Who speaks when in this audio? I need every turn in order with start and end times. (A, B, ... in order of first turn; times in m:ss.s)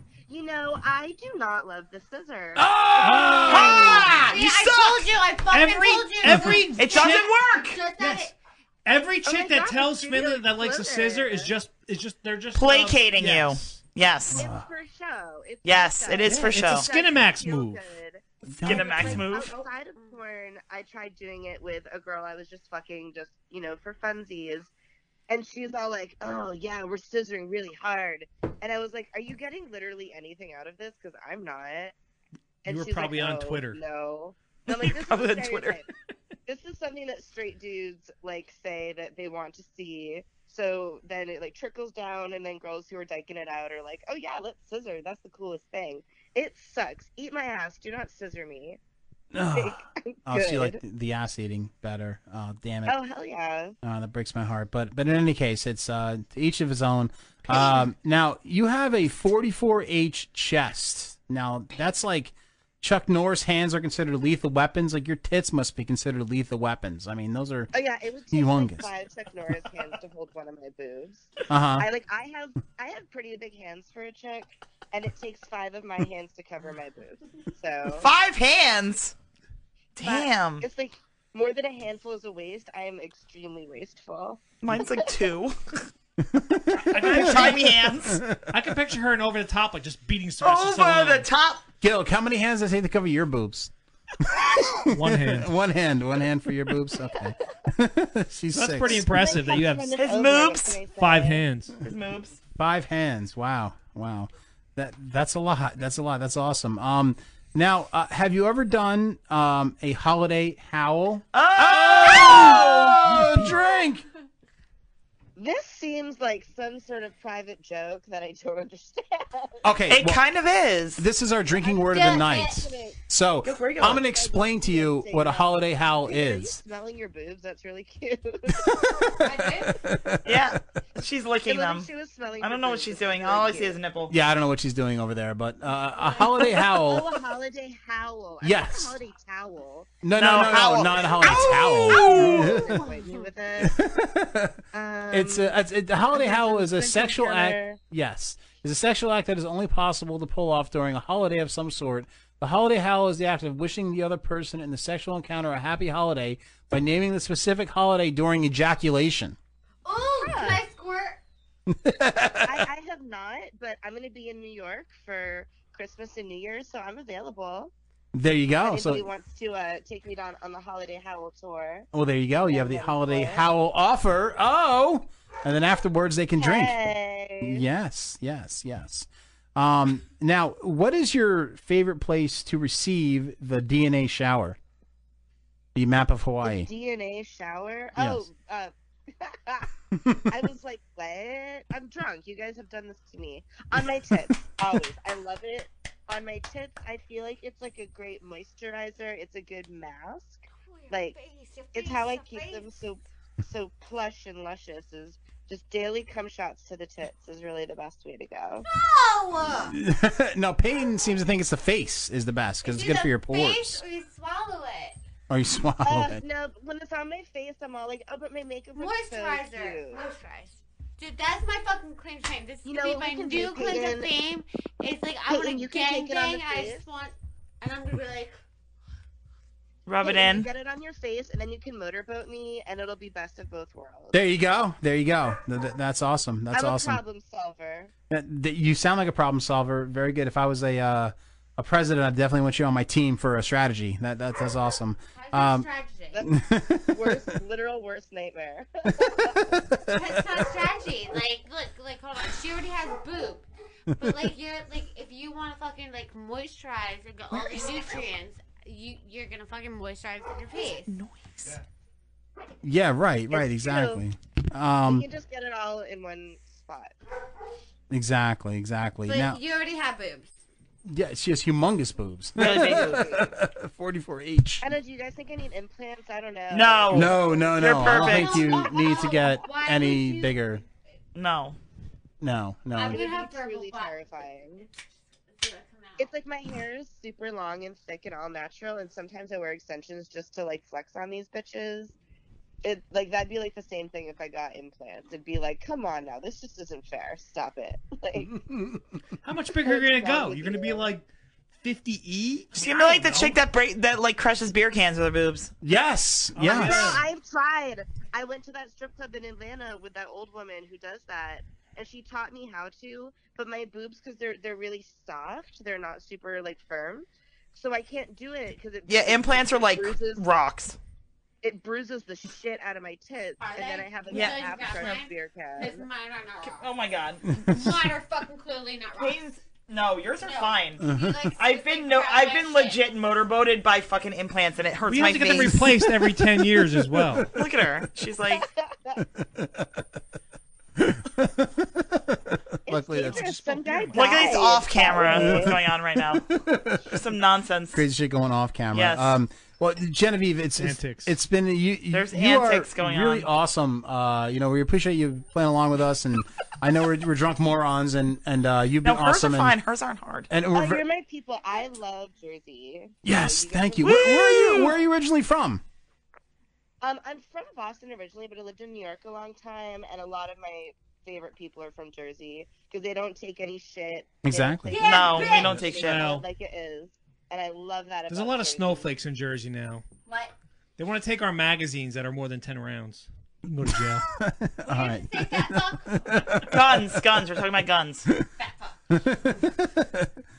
0:00.3-0:02.6 A
0:02.6-0:04.1 B
0:03.0-0:04.9 C
0:03.4-0:08.3 D
0:03.5-0:04.3 E
0:05.5-0:07.3 C
0:06.8-0:07.8 E
0:08.0-0:08.3 C
0:08.8-0:13.8 C
0:09.2-0:11.5 A
0:12.5-0:14.5 E
0:14.3-0:14.7 B
0:14.4-0:24.7 A
0:15.6-0:16.9 E
0:16.2-0:17.8 C
0:18.5-0:19.2 B
0:18.6-0:19.6 E
0:25.3-0:31.9 A
0:32.6-0:35.8 A
0:32.6-0:33.8 C
0:34.7-0:35.8 E
0:36.5-0:48.8 A
0:49.3-0:52.9 B
0:49.5-0:50.8 A
0:52.8-0:53.8 A
0:53.8-1:07.7 B
0:57.5-0:57.8 A
1:07.7-1:18.1 A
1:08.3-1:08.9 B
1:11.5-1:11.8 B
1:18.0-1:19.1 E
1:20.0-1:20.6 E
1:20.0-1:25.1 A
1:24.6-1:25.6 E
1:26.2-1:28.5 B
1:26.9-1:27.7 C
1:27.1-1:28.2 E
1:28.5-1:31.3 C
1:30.4-1:31.6 E
1:31.8-1:33.7 B
1:34.2-1:39.2 B
1:34.9-1:35.5 C
1:38.5-1:40.0 C
1:39.0-1:41.4 A
1:40.0-1:40.8 E
1:41.0-1:41.7 C
1:41.8-1:42.4 E
1:42.6-1:54.0 B
1:51.3-1:53.0 E
1:55.4-1:59.6 A
1:59.6-2:00.2 B
1:59.9-2:01.0 E
2:01.0-2:06.6 B
2:01.7-2:02.6 D
2:01.9-2:03.0 A
2:03.4-2:04.1 E
2:04.0-2:08.7 A
2:08.6-2:10.6 B
2:09.2-2:09.8 D
2:10.2-2:11.9 E
2:11.4-2:13.8 A
2:12.4-2:14.1 E
2:14.1-2:17.1 B
2:16.5-2:20.0 A
2:18.4-2:19.0 B
2:20.0-2:22.8 B
2:20.2-2:22.5 E
2:21.2-2:23.7 A
2:21.7-2:23.3 D
2:23.6-2:24.6 B
2:24.7-2:25.6 A
2:25.1-2:39.4 B
2:26.1-2:27.8 A
2:39.8-2:41.2 D
2:40.2-2:40.6 A
2:41.7-2:42.6 B
2:42.4-2:47.7 A
2:48.1-2:49.1 B
2:48.6-2:51.9 A
2:51.9-2:56.8 B
2:52.5-2:53.4 A
2:56.4-2:57.6 A
2:57.4-3:04.6 B
3:05.7-3:06.7 B
3:06.4-3:09.7 A
3:08.0-3:08.2 B
3:09.9-3:10.2 B
3:10.3-3:21.2 A
3:20.5-3:22.7 D
3:21.7-3:28.6 A
3:28.6-3:29.7 D
3:29.6-3:33.8 B
3:32.6-3:35.0 D
3:35.3-3:36.2 B
3:35.8-3:40.0 A
3:38.8-3:48.4 D
3:42.6-3:44.1 A
3:45.3-3:46.9 A
3:49.8-3:50.5 E
3:50.0-3:54.2 A
3:54.1-3:57.0 B
3:56.5-3:57.9 A
3:58.1-4:05.7 B
4:05.1-4:06.2 D
4:06.2-4:07.3 B
4:06.9-4:09.4 A
4:09.0-4:10.4 B
4:09.9-4:13.4 D
4:13.9-4:14.3 B
4:14.0-4:20.9 D
4:20.9-4:21.6 E
4:22.6-4:25.0 B
4:23.3-4:24.0 A
4:24.8-4:26.9 A
4:27.9-4:29.4 B
4:29.0-4:30.3 D
4:30.8-4:34.7 B
4:32.4-4:33.1 E
4:32.4-4:33.3 A
4:34.6-4:37.1 A
4:36.5-4:38.6 E
4:36.9-4:40.6 B
4:37.9-4:40.6 D
4:41.1-4:41.6 E
4:42.2-4:43.0 B
4:42.7-4:44.4 D
4:42.8-4:44.7 A
4:45.3-4:46.1 D
4:46.0-4:51.9 A
4:52.6-4:58.3 A
4:58.4-4:58.8 B
4:59.2-5:01.0 C
4:59.6-5:00.9 A
5:01.6-5:03.4 C
5:02.5-5:05.5 E
5:05.6-5:06.9 B
5:06.3-5:07.0 C
5:06.4-5:20.2 A
5:18.9-5:20.8 E
5:21.4-5:25.8 A
5:23.4-5:26.7 D
5:24.1-5:24.9 E
5:26.4-5:27.4 E
5:27.3-5:27.7 B
5:27.5-5:29.2 D
5:29.0-5:30.8 E
5:30.2-5:32.8 D
5:30.8-5:31.3 B
5:31.4-5:35.6 E
5:34.9-5:37.3 C
5:35.8-5:37.3 B
5:37.4-5:38.4 E
5:38.3-5:39.0 A
5:39.2-5:39.7 B
5:40.8-5:43.3 B
5:42.7-5:45.6 A
5:43.0-5:44.2 C
5:43.9-5:46.2 E
5:45.0-5:47.0 B
5:46.9-5:47.8 E
5:47.7-5:59.6 B
5:48.7-5:49.1 E
5:50.6-5:51.1 C
5:51.9-5:53.3 E
5:58.8-6:00.3 E
6:00.3-6:00.8 B
6:00.5-6:04.7 A
6:03.0-6:05.6 B
6:03.8-6:04.8 E
6:06.8-6:18.9 A
6:14.2-6:14.8 B
6:14.7-6:15.7 D
6:14.7-6:16.1 E
6:15.4-6:16.2 C
6:18.1-6:19.8 C
6:20.1-6:20.3 D
6:20.8-6:24.0 C
6:23.6-6:27.0 B
6:24.6-6:26.4 D
6:26.5-6:28.1 E
6:28.4-6:28.7 D
6:28.9-6:30.1 B